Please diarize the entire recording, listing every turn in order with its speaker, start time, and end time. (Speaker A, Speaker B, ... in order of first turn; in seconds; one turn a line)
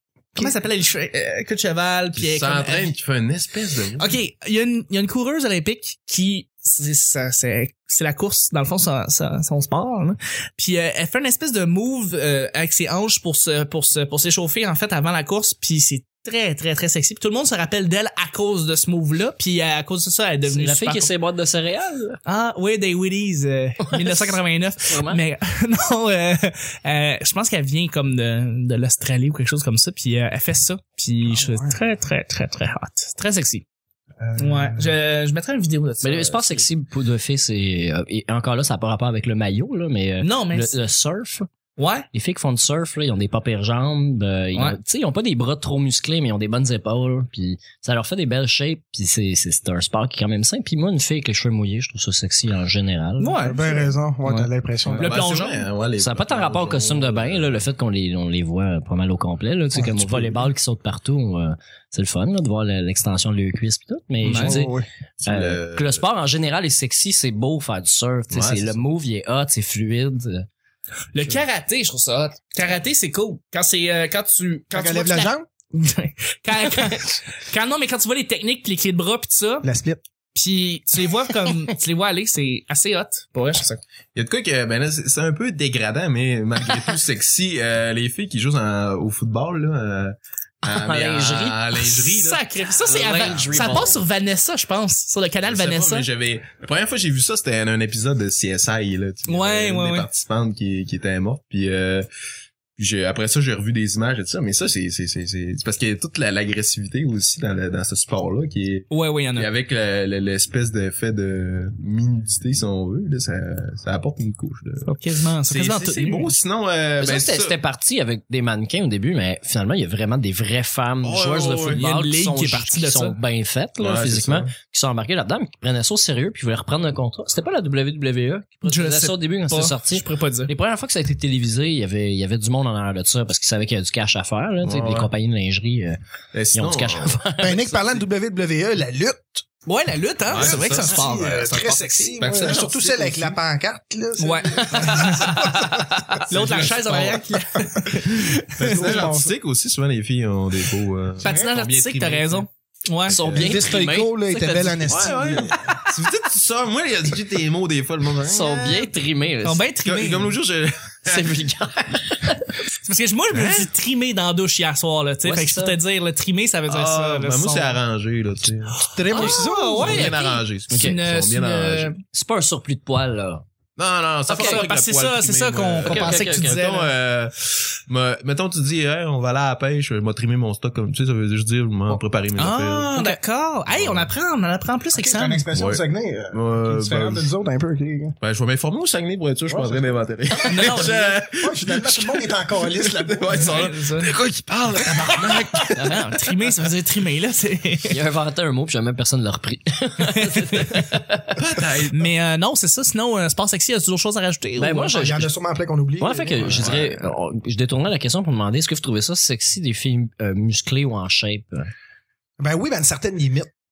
Speaker A: 0.3-2.9
Speaker B: 2.1-4.2
Speaker A: 4.0-21.1
Speaker C: 20.5-22.2
Speaker A: 22.2-33.6
Speaker C: 23.9-25.2
Speaker D: 31.2-31.8
Speaker D: 34.2-35.0
Speaker A: 34.4-36.7
Speaker C: 36.0-41.5
Speaker A: 40.2-40.8
Speaker A: 41.8-42.1
Speaker C: 42.1-53.4
Speaker A: 53.2-55.6
Speaker D: 53.4-55.1
Speaker B: 54.9-57.6
Speaker C: 56.0-70.5
Speaker D: 59.7-60.2
Speaker A: 64.2-64.6
Speaker D: 64.3-64.8
Speaker B: 65.2-66.0
Speaker B: 68.3-68.8
Speaker A: 71.1-79.7
Speaker D: 74.7-75.5
Speaker D: 79.6-80.0
Speaker A: 80.3-83.8
Speaker B: 84.1-93.9
Speaker C: 90.6-92.1
Speaker A: 91.8-96.1
Speaker C: 92.8-94.0
Speaker B: 95.4-102.1
Speaker A: 99.3-100.1
Speaker B: 102.8-117.6
Speaker A: 108.9-109.5
Speaker A: 114.8-116.3
Speaker C: 117.0-136.0
Speaker B: 121.0-121.8
Speaker A: 121.7-123.2
Speaker B: 123.8-124.5
Speaker A: 128.6-130.5
Speaker B: 134.6-135.1
Speaker B: 136.3-137.2
Speaker C: 136.5-138.0
Speaker D: 137.4-139.4
Speaker A: 139.7-141.8
Speaker B: 140.3-142.7
Speaker D: 140.3-146.2
Speaker C: 141.9-143.3
Speaker A: 144.2-149.1
Speaker B: 146.3-147.2
Speaker B: 148.1-152.4
Speaker D: 148.6-149.3
Speaker A: 151.2-153.6
Speaker D: 151.2-151.5
Speaker B: 153.1-153.5
Speaker C: 153.1-154.1
Speaker D: 153.3-155.7
Speaker A: 154.2-155.4
Speaker B: 154.9-158.9
Speaker C: 158.2-159.7
Speaker A: 159.4-160.4
Speaker B: 159.8-161.4
Speaker C: 161.1-162.5
Speaker A: 162.8-167.8
Speaker B: 163.3-163.7
Speaker C: 165.2-165.8
Speaker B: 166.7-168.8
Speaker D: 168.9-170.1
Speaker A: 169.0-172.0
Speaker C: 169.1-170.2
Speaker B: 169.9-171.9
Speaker C: 170.7-171.0
Speaker C: 172.1-173.4
Speaker B: 173.8-183.0
Speaker C: 174.3-174.7
Speaker A: 174.3-176.9
Speaker C: 175.8-176.6
Speaker A: 182.3-185.5
Speaker B: 183.7-184.1
Speaker D: 184.9-188.2
Speaker B: 185.5-187.3
Speaker B: 188.2-196.0
Speaker D: 189.5-193.5
Speaker A: 190.5-190.9
Speaker A: 193.3-194.1
Speaker C: 195.8-196.0
Speaker A: 195.8-198.0
Speaker C: 197.9-201.4
Speaker A: 200.1-200.8
Speaker B: 201.4-202.1
Speaker A: 201.9-204.9
Speaker C: 204.6-205.3
Speaker D: 204.9-206.7
Speaker C: 206.0-211.7
Speaker B: 206.4-207.1
Speaker D: 212.4-213.5